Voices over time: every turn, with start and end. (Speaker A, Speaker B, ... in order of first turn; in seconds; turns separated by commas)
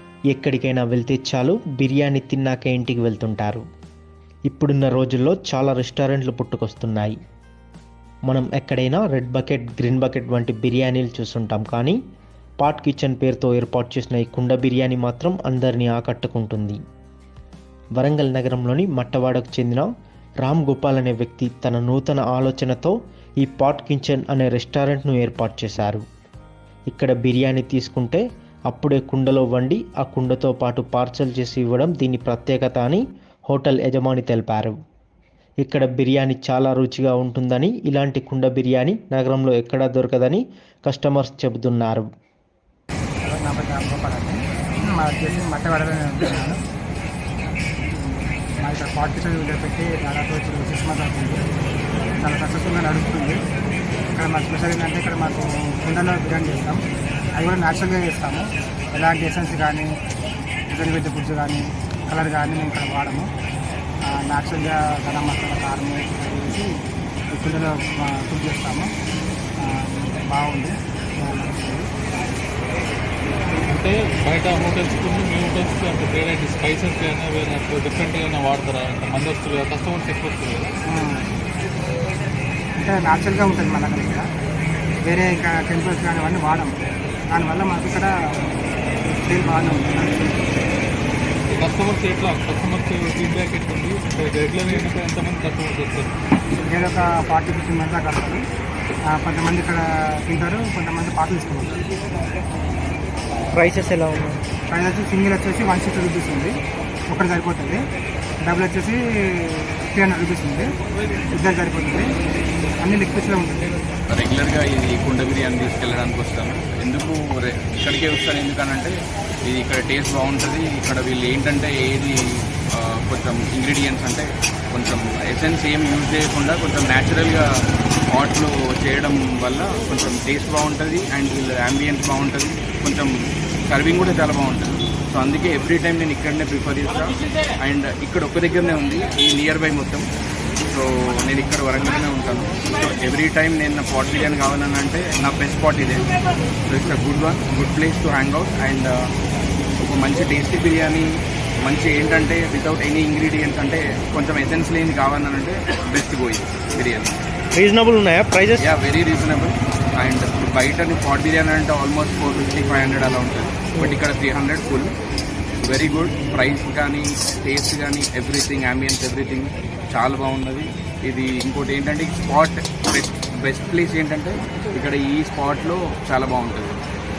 Speaker A: 0.3-3.6, Speaker A: 4.5-7.2, Speaker A: 8.3-12.0, Speaker A: 12.6-16.8, Speaker A: 18.0-19.9, Speaker A: 20.4-26.0, Speaker A: 26.9-34.8, Speaker A: 35.6-42.1, Speaker B: 43.2-46.6, Speaker B: 48.0-51.4, Speaker B: 52.2-53.4, Speaker B: 54.1-56.8, Speaker B: 57.4-59.9, Speaker B: 60.7-63.3, Speaker B: 64.1-66.7, Speaker B: 67.3-68.9, Speaker B: 69.6-71.9, Speaker C: 73.7-80.7, Speaker B: 80.9-81.3, Speaker B: 82.8-84.3, Speaker B: 85.0-86.7, Speaker B: 87.3-88.2, Speaker B: 89.1-90.3, Speaker C: 91.5-96.1, Speaker B: 96.7-98.4, Speaker B: 99.1-101.9, Speaker A: 103.5-104.4, Speaker B: 104.7-106.5, Speaker B: 107.1-107.8, Speaker B: 108.4-110.7, Speaker B: 111.3-112.1, Speaker B: 112.8-113.8, Speaker D: 114.1-127.5, Speaker D: 128.1-133.1, Speaker D: 133.7-140.1, Speaker D: 140.7-146.1, Speaker D: 146.7-149.0, Speaker D: 149.8-151.1, Speaker D: 151.7-157.2, Speaker A: 157.6-158.7, Speaker D: 158.6-164.9, Speaker D: 165.6-176.8